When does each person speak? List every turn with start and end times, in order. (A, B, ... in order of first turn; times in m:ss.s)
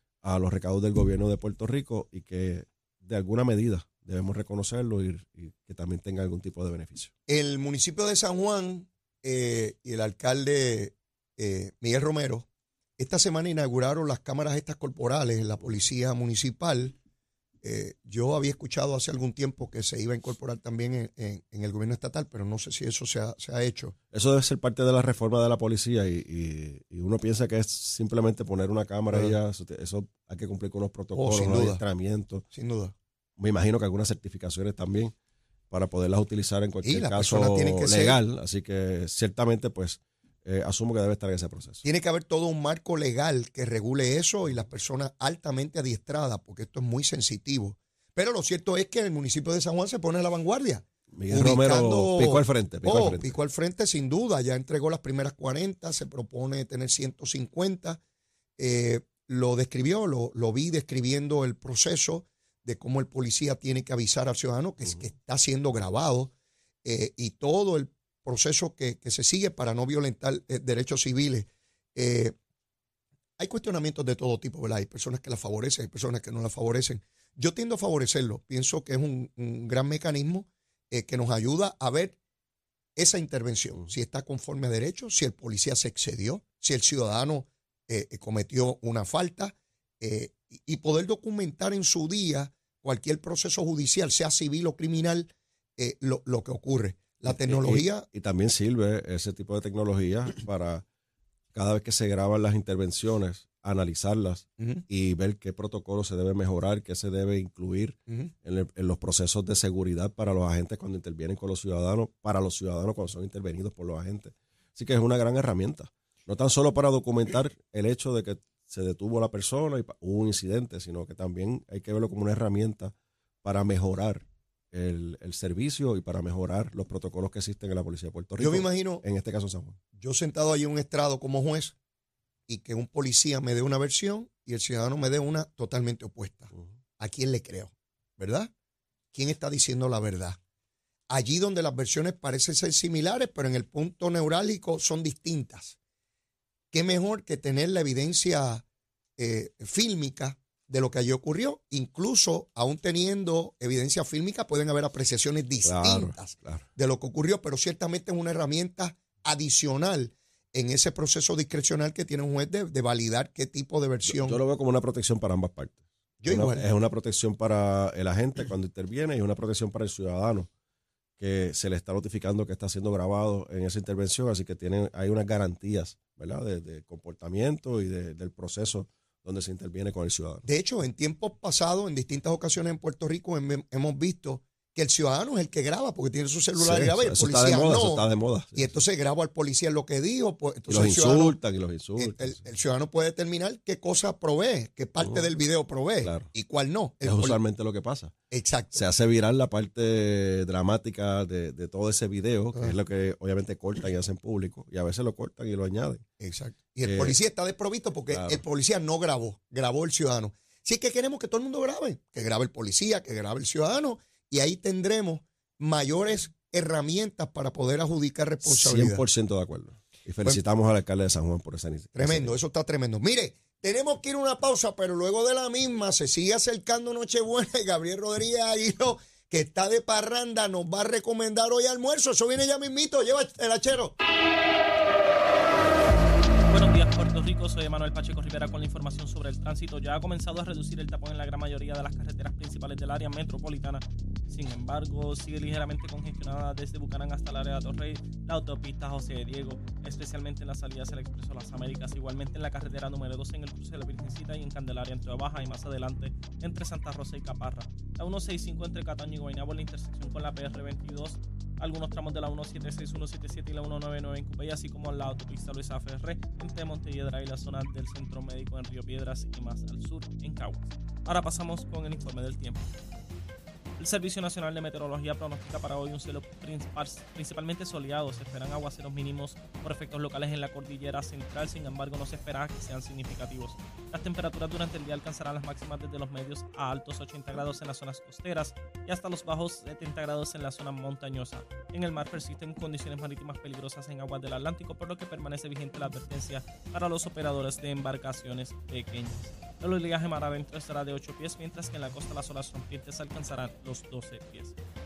0:00.2-0:07.1 A
0:07.3-0:12.5 B
0:13.0-0:17.0 B
0:17.6-0:23.9 B
0:24.1-0:32.4 A
0:29.1-0:29.4 B
0:31.2-0:31.8 B
0:32.5-0:32.9 B
0:33.4-0:35.1 A
0:35.7-0:41.8 A
0:36.8-0:38.2 B
0:41.8-0:58.0 B
0:51.1-0:53.4 A
0:58.6-1:06.3 B
1:06.8-1:12.4 B
1:13.4-1:22.2 B
1:23.0-1:38.1 B
1:37.3-1:40.8 A
1:41.5-2:09.8 A
1:44.6-1:44.8 B
2:08.4-2:09.0 B
2:10.0-2:11.8 B
2:12.5-2:18.5 B
2:19.1-2:20.4 B
2:21.1-2:25.8 B
2:26.7-2:28.6 B
2:29.2-2:44.4 B
2:35.6-2:36.7 A
2:44.1-2:50.5 A
2:46.2-2:46.6 B
2:51.2-3:00.5 A
3:00.5-3:11.4 B
3:06.6-3:08.8 A
3:10.7-3:12.4 A
3:12.0-3:17.4 B
3:15.0-3:15.3 A
3:16.0-3:16.3 A
3:17.0-3:18.1 A
3:18.3-3:18.8 B
3:18.8-3:26.0 A
3:26.2-3:39.0 B
3:26.8-3:27.2 A
3:28.1-3:28.4 A
3:38.4-3:42.4 A
3:42.0-3:53.9 B
3:56.5-4:32.7 C
4:33.8-5:04.6 C